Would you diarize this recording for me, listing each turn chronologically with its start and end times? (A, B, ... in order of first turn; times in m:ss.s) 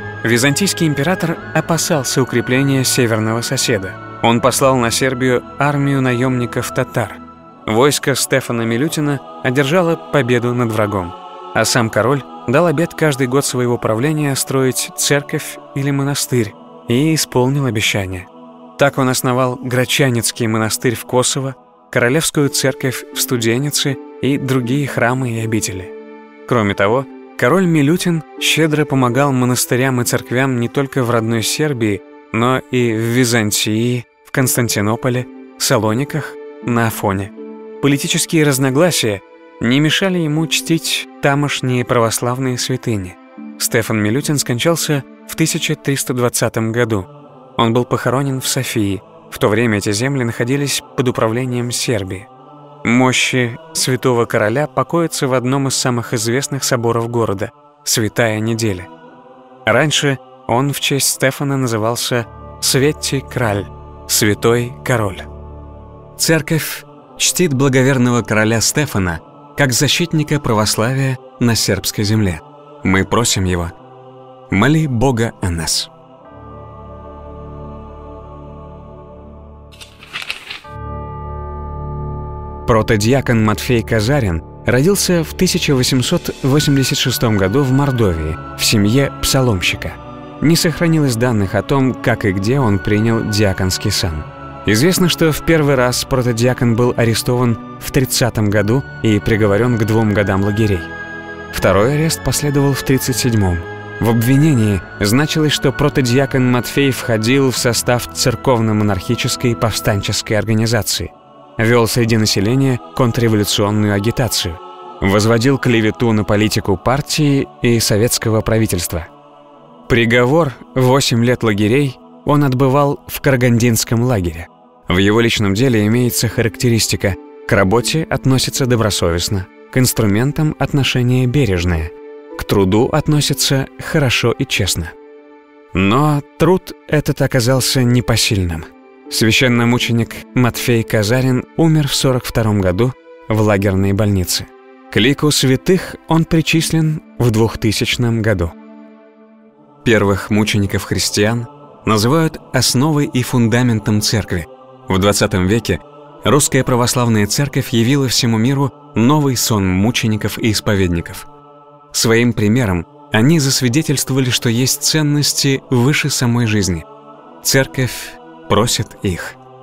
0:00.2-0:25.9 A
0:26.4-0:52.3 A
0:52.8-0:58.9 A
0:59.6-1:05.3 A
1:06.2-1:13.7 A
1:14.5-1:15.9 A
1:22.6-1:40.9 A
1:41.5-1:59.1 A
1:59.9-2:14.9 A
2:15.7-2:28.5 A
2:29.8-2:41.3 A
2:41.9-2:46.8 A
2:47.4-2:49.4 A